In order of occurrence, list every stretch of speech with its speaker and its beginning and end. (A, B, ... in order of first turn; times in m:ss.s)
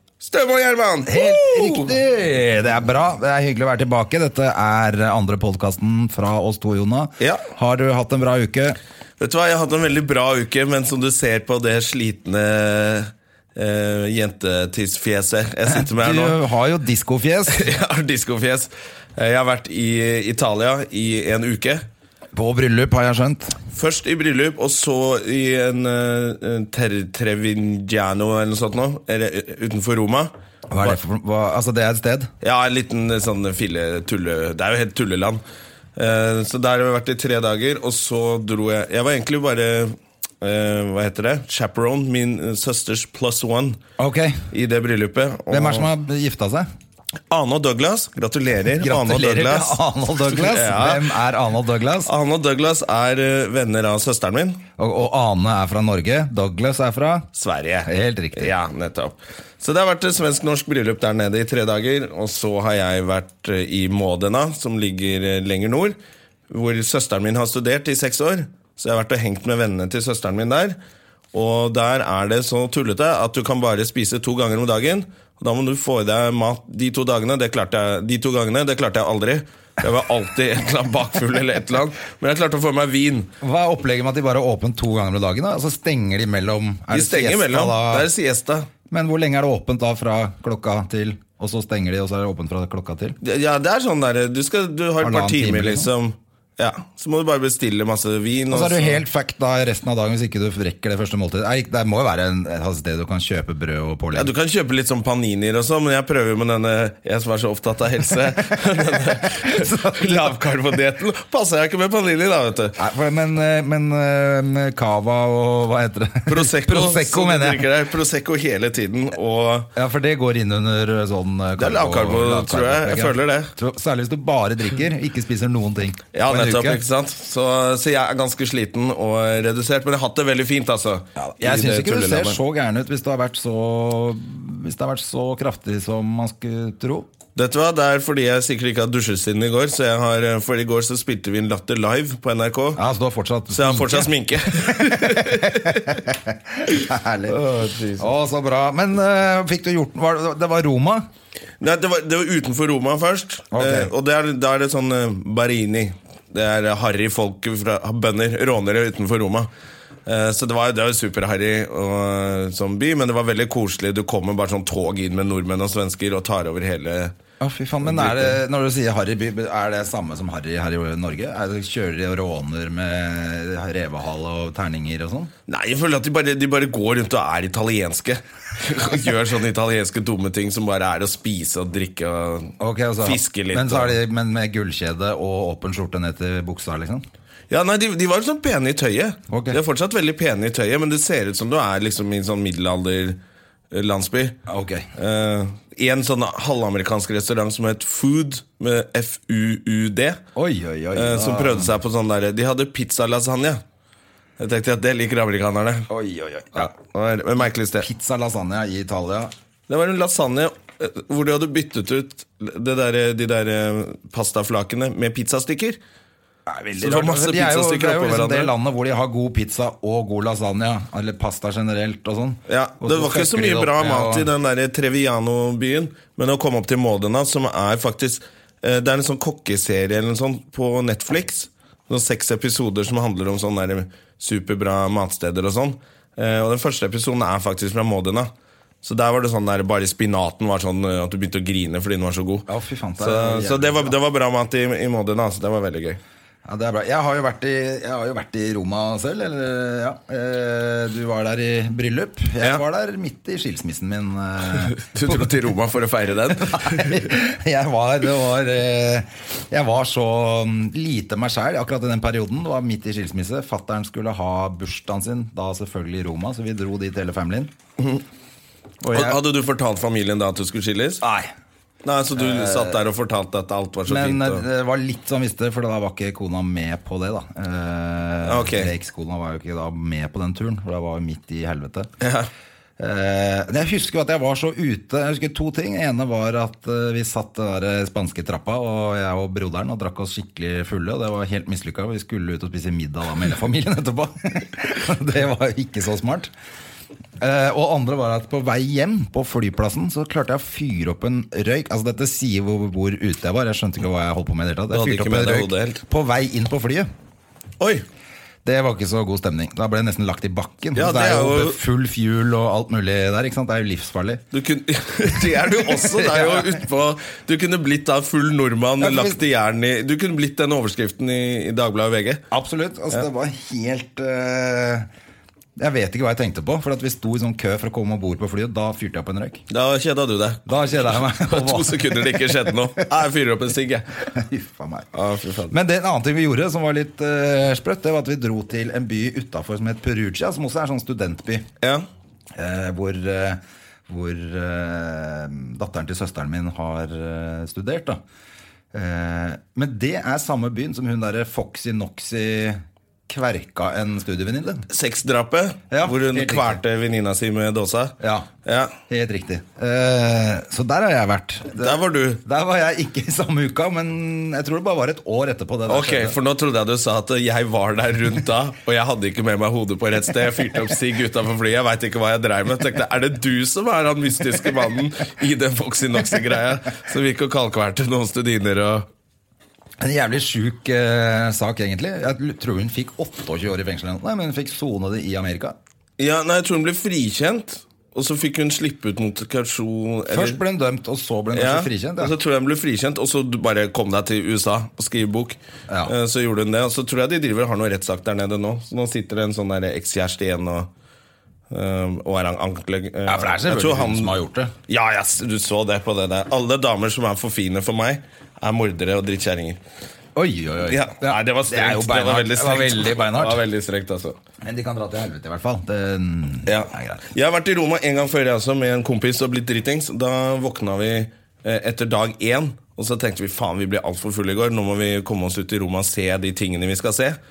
0:00.2-0:01.9 A
0:01.1-0:08.8 B
0:07.2-0:07.4 A
0:09.2-0:16.4 A
0:15.7-0:17.7 B
0:17.5-0:21.8 A
0:22.3-0:23.6 B
0:23.7-0:31.0 A
0:30.7-0:32.3 B
0:32.4-0:35.4 A
0:36.0-0:43.8 A
0:44.0-0:44.5 B
0:44.5-0:45.9 A
0:45.5-0:46.6 B
0:47.3-0:51.1 A
0:48.8-0:52.1 B
0:52.0-0:54.6 A
0:54.8-0:57.3 B
0:57.4-1:06.0 A
0:57.8-0:58.5 B
1:06.5-1:10.8 A
1:11.3-1:23.3 A
1:23.4-1:28.1 B
1:26.9-1:28.7 A
1:28.9-1:33.2 B
1:33.2-1:39.0 A
1:35.0-1:35.9 B
1:38.5-1:44.3 B
1:44.1-1:52.8 A
1:49.0-1:50.2 B
1:52.8-1:57.7 B
1:56.3-1:59.7 A
1:59.8-2:06.8 B
2:01.6-2:03.5 A
2:06.1-2:12.4 A
2:11.2-2:17.1 B
2:17.4-2:22.8 A
2:22.8-2:27.4 B
2:23.5-2:26.0 A
2:27.3-2:28.1 A
2:28.0-2:31.0 B
2:31.6-2:39.5 A
2:33.5-2:33.9 B
2:40.0-2:47.1 A
2:47.4-2:55.3 B
2:47.8-2:48.4 A
2:55.5-3:04.0 A
3:02.6-3:07.0 B
3:07.5-3:13.2 A
3:09.3-3:09.6 B
3:13.7-3:14.4 A
3:14.5-3:14.9 B
3:15.0-3:20.2 A
3:20.3-3:21.7 B
3:20.9-3:23.6 A
3:24.4-3:25.9 A
3:25.9-3:26.7 B
3:26.5-3:27.9 A
3:27.8-3:29.3 B
3:29.7-3:35.8 A
3:36.5-3:44.3 B
3:36.8-3:38.5 A
3:42.5-3:58.3 A
3:58.8-4:02.5 A
4:02.5-4:03.9 B
4:03.0-4:06.0 A
4:06.4-4:15.3 B
4:14.6-4:17.1 A
4:16.5-4:27.5 B
4:28.8-4:29.2 B
4:28.9-4:31.0 A
4:31.0-4:31.3 B
4:31.8-4:34.4 A
4:32.2-4:32.8 B
4:33.9-4:41.9 B
4:38.2-4:38.7 A
4:42.0-4:42.3 A
4:42.8-4:56.3 B
4:57.2-5:06.9 B
5:04.7-5:05.8 A
5:08.4-5:14.2 B
5:10.8-5:11.6 A
5:14.3-5:22.2 A
5:15.7-5:16.6 B
5:18.8-5:19.2 B
5:22.3-5:24.9 B
5:25.6-5:29.4 B
5:29.5-5:30.4 A
5:30.4-5:32.5 B
5:31.1-5:33.8 A
5:34.1-5:34.9 B
5:34.9-5:35.5 A
5:35.5-5:41.4 B
5:42.3-5:48.0 B
5:48.7-5:54.6 B
5:54.7-5:58.8 A
5:55.7-5:56.6 B
5:58.0-5:58.3 B
5:58.9-6:06.2 B
6:01.6-6:02.2 A
6:05.7-6:18.8 A
6:19.8-6:25.6 B
6:26.0-6:30.4 A
6:30.1-6:32.1 B
6:31.3-6:40.7 A
6:41.5-6:44.1 A
6:43.1-6:44.5 B
6:44.7-6:49.6 A
6:50.2-6:53.4 B
6:50.7-6:54.2 A
6:54.4-6:57.0 B
6:56.5-7:07.2 A